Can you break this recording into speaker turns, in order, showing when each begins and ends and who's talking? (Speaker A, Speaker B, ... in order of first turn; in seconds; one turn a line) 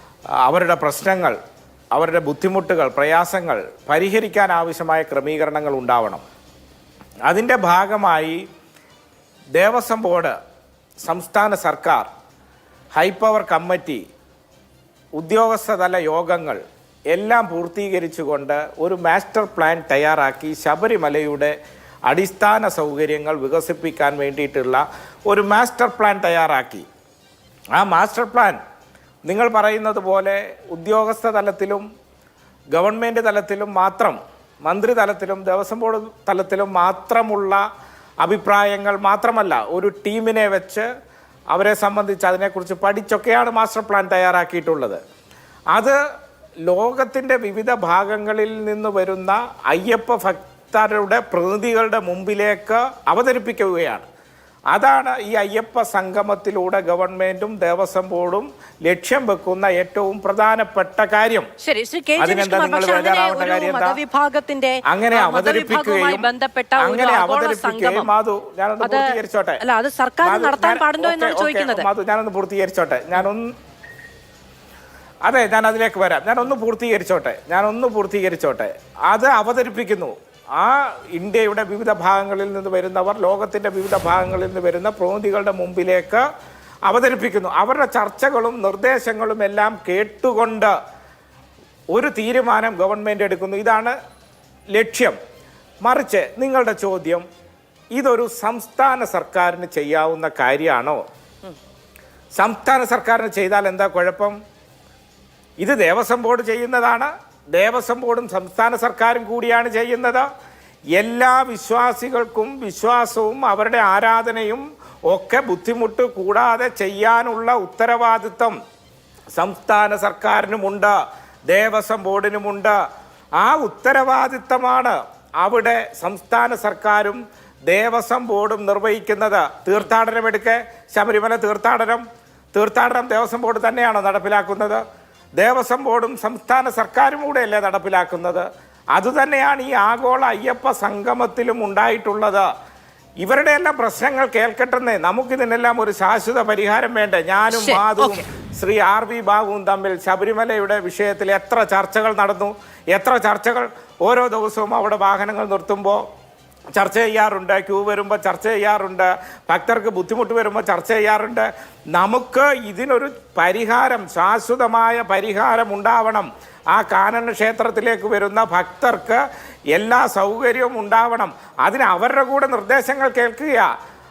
Speaker A: 0.4-1.4
Speaker A: 1.9-6.2
Speaker A: 7.2-8.4
Speaker A: 9.6-10.3
Speaker A: 11.0-12.1
Speaker A: 12.9-14.0
Speaker A: 15.2-16.6
Speaker A: 17.1-21.5
Speaker A: 22.1-26.9
Speaker A: 27.7-28.6
Speaker A: 29.2-31.8
Speaker A: 32.7-37.6
Speaker A: 38.2-40.9
Speaker A: 41.5-45.0
Speaker A: 46.6-54.1
Speaker A: 54.7-61.5
Speaker B: 61.6-68.1
Speaker A: 62.2-64.0
Speaker A: 64.9-69.6
Speaker B: 68.8-71.9
Speaker A: 70.2-73.5
Speaker A: 75.2-86.2
Speaker A: 86.8-90.7
Speaker A: 91.9-94.0
Speaker A: 94.7-95.2
Speaker A: 95.8-97.2
Speaker A: 97.9-101.0
Speaker A: 102.3-104.3
Speaker A: 105.6-110.2
Speaker A: 110.9-118.5
Speaker A: 119.3-120.9
Speaker A: 121.5-122.8
Speaker A: 123.4-134.8
Speaker A: 135.4-142.4
Speaker A: 143.2-156.0
Speaker B: 147.5-148.2
Speaker A: 156.7-173.7